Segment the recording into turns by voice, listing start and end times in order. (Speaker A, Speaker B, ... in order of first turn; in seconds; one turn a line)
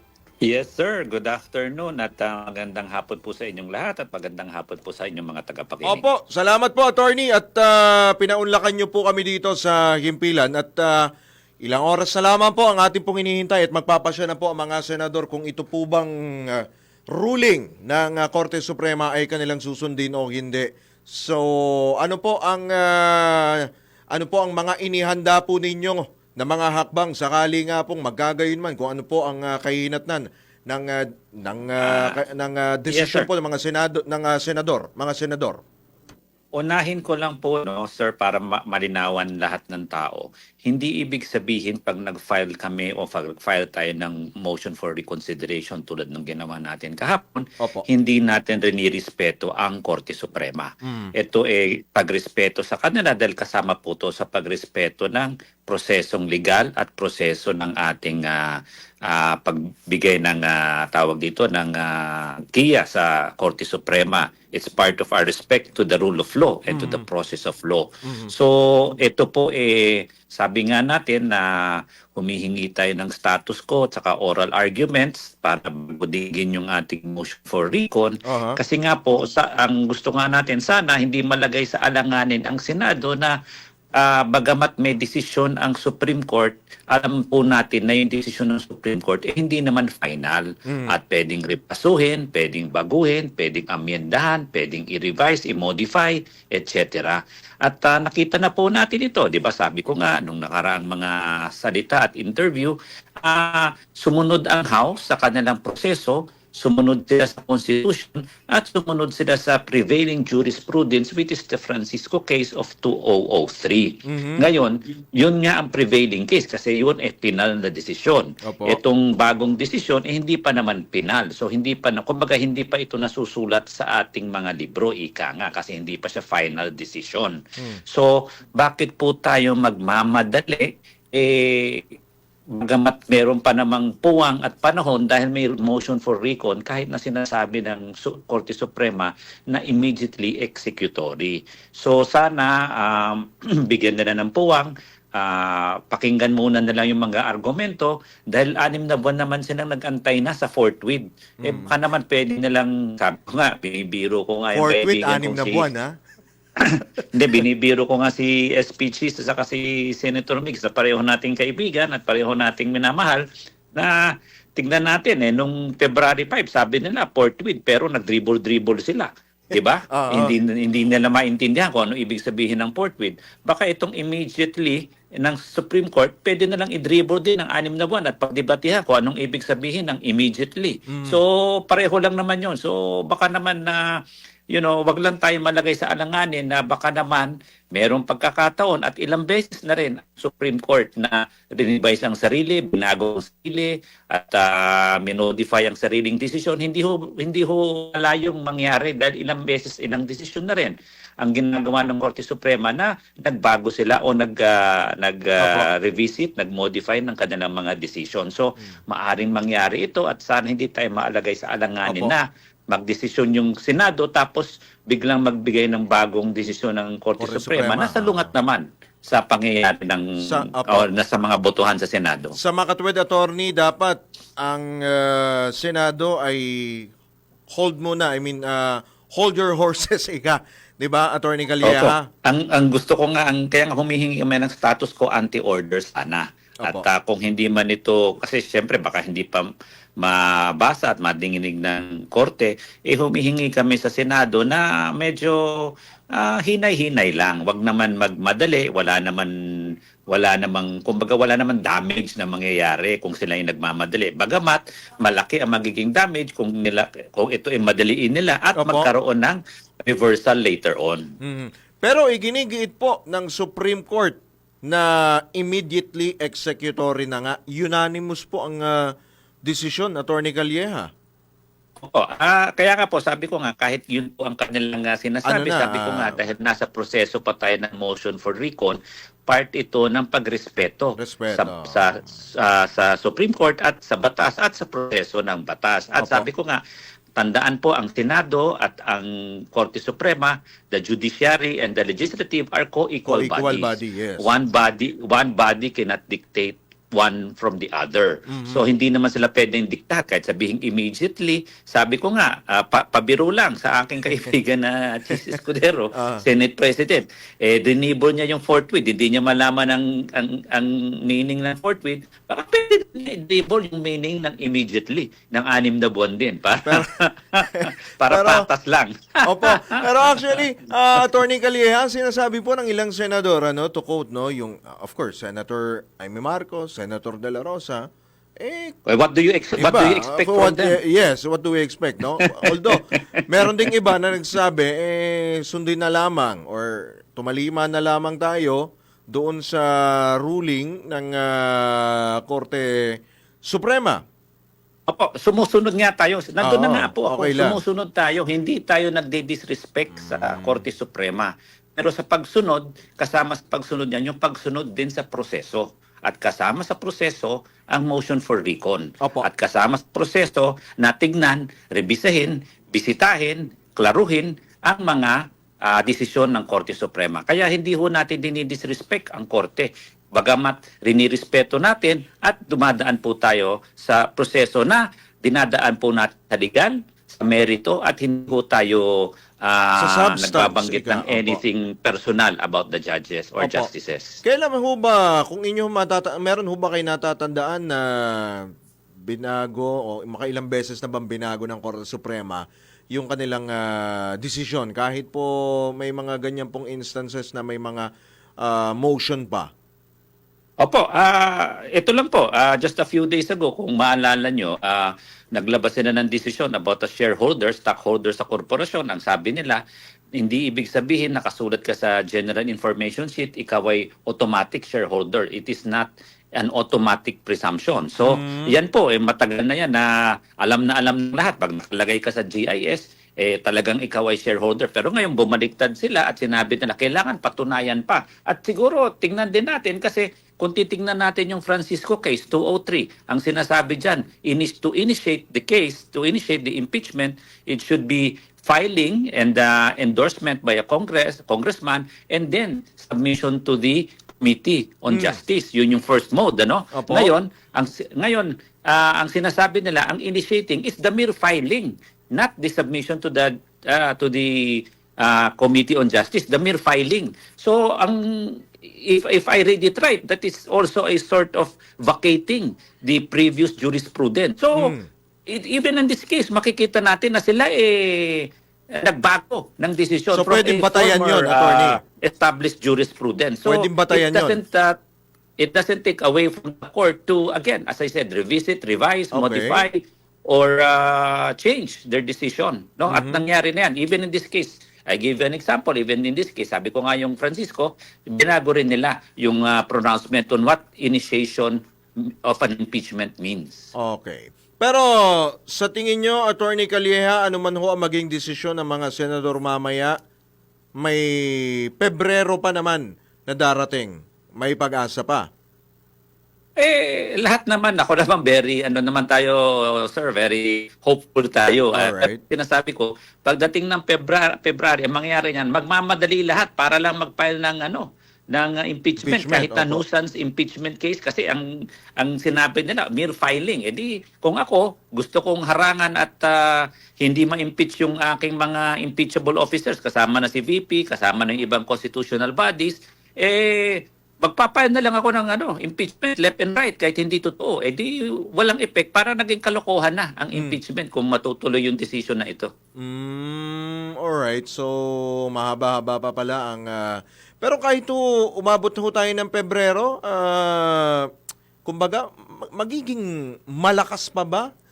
Speaker A: 0.4-6.0
Speaker B: 5.8-11.1
Speaker B: 11.6-21.5
Speaker B: 22.0-35.6
Speaker A: 31.8-32.2
Speaker A: 32.9-33.3
Speaker A: 36.5-83.4
Speaker B: 47.6-47.9
Speaker B: 50.9-51.1
Speaker B: 66.7-67.0
Speaker B: 68.0-68.3
Speaker B: 78.3-78.6
Speaker A: 84.0-131.9
Speaker B: 90.7-91.0
Speaker B: 114.1-114.5
Speaker B: 118.5-118.8
Speaker A: 132.5-155.7
Speaker B: 151.4-151.7
Speaker B: 154.5-155.9
Speaker A: 156.6-183.8
Speaker B: 169.9-170.3
Speaker B: 180.9-181.2
Speaker A: 184.5-222.3
Speaker B: 205.4-205.7
Speaker B: 211.9-212.1
Speaker B: 217.2-218.3
Speaker B: 220.2-220.9
Speaker B: 222.4-226.9
Speaker B: 227.5-232.0
Speaker A: 231.6-239.5
Speaker A: 240.0-261.1
Speaker B: 258.6-258.9
Speaker B: 261.2-268.9
Speaker B: 269.5-270.9
Speaker A: 271.8-286.6
Speaker B: 275.3-276.2
Speaker B: 281.0-281.8
Speaker B: 286.0-286.3
Speaker A: 287.2-320.4
Speaker B: 293.1-294.3
Speaker B: 298.3-298.7
Speaker B: 306.0-306.2
Speaker B: 317.6-318.5
Speaker B: 319.2-327.9
Speaker B: 328.4-328.8
Speaker A: 328.9-330.8
Speaker B: 329.6-342.7
Speaker A: 332.2-333.2
Speaker B: 343.5-344.0
Speaker A: 344.9-384.2
Speaker B: 346.4-347.6
Speaker B: 349.9-350.6
Speaker B: 359.0-359.3
Speaker B: 379.8-381.4
Speaker B: 383.4-383.7
Speaker B: 384.2-388.5
Speaker B: 389.1-397.9
Speaker B: 398.4-399.5
Speaker A: 400.6-409.6
Speaker A: 410.2-464.7
Speaker B: 418.0-418.6
Speaker B: 444.9-445.2
Speaker B: 446.7-447.1
Speaker B: 464.6-464.9
Speaker A: 465.3-474.8
Speaker B: 470.1-471.8
Speaker B: 473.4-474.4
Speaker A: 475.4-491.6
Speaker B: 479.1-479.6
Speaker B: 482.9-483.2
Speaker A: 492.3-493.7
Speaker B: 493.8-499.9
Speaker B: 500.8-505.3
Speaker A: 506.6-521.5
Speaker B: 511.7-512.2
Speaker B: 519.0-519.8
Speaker A: 522.0-542.5
Speaker B: 542.8-544.8
Speaker B: 545.3-551.1
Speaker B: 551.6-552.0
Speaker B: 552.5-554.5